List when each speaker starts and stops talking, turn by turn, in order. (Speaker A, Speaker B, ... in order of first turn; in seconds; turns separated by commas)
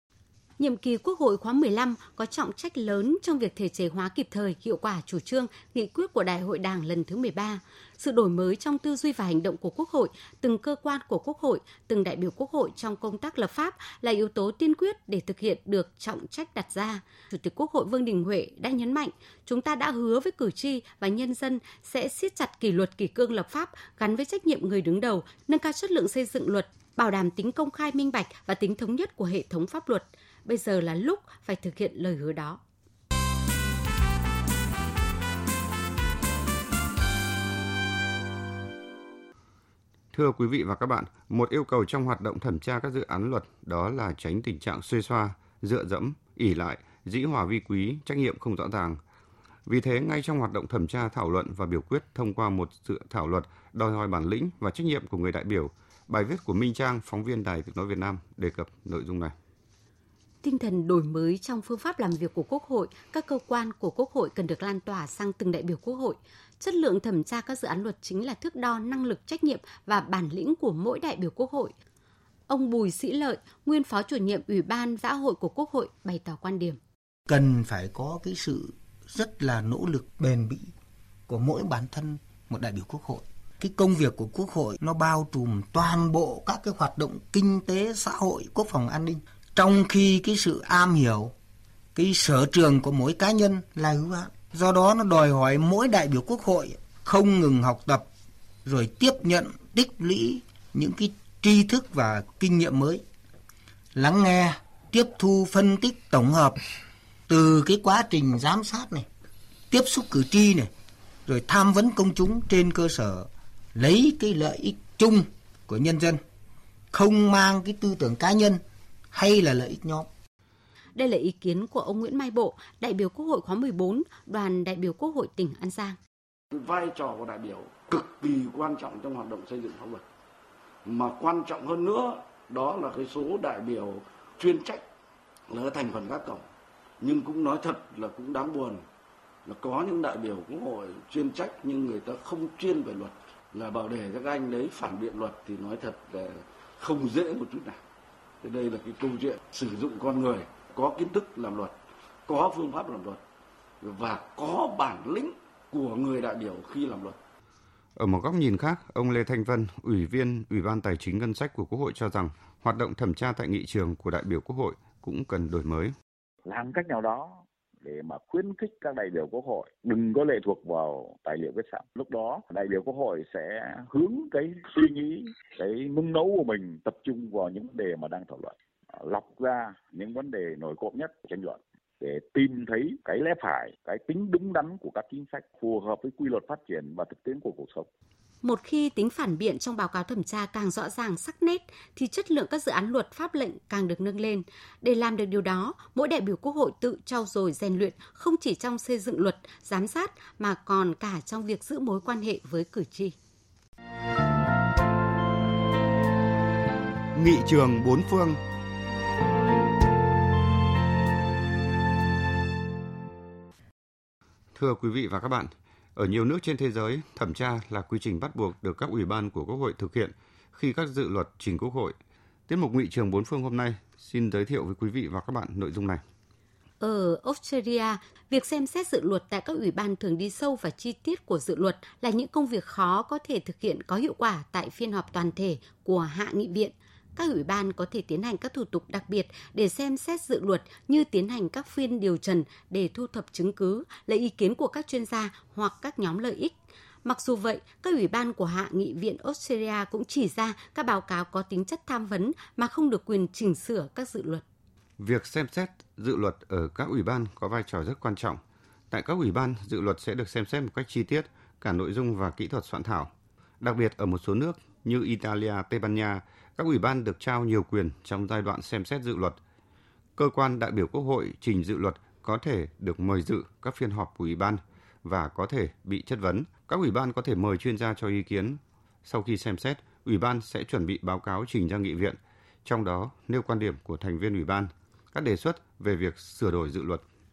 Speaker A: 0.6-32.6, Speaker B: 40.1-49.0, Speaker B: 49.7-59.3, Speaker A: 60.4-71.7, Speaker A: 72.5-76.8, Speaker C: 77.3-80.7, Speaker C: 81.3-91.3, Speaker C: 91.9-98.0, Speaker C: 98.6-103.0, Speaker C: 103.9-106.6, Speaker C: 107.3-109.1, Speaker C: 109.7-110.7, Speaker C: 111.2-116.2, Speaker C: 116.9-118.6, Speaker C: 119.1-120.1, Speaker A: 120.9-126.0, Speaker D: 126.5-130.0, Speaker D: 130.8-134.8, Speaker D: 135.5-136.4, Speaker D: 137.0-138.8, Speaker D: 139.4-147.8, Speaker D: 148.4-151.7, Speaker D: 152.3-153.2, Speaker D: 153.8-157.2, Speaker B: 158.0-165.9, Speaker E: 166.4-187.9, Speaker A: 188.4-203.2, Speaker B: 207.1-208.4, Speaker B: 214.5-221.9, Speaker B: 222.5-226.0, Speaker A: 226.8-254.4, Speaker B: 255.0-258.4, Speaker B: 258.9-269.4, Speaker B: 270.2-287.0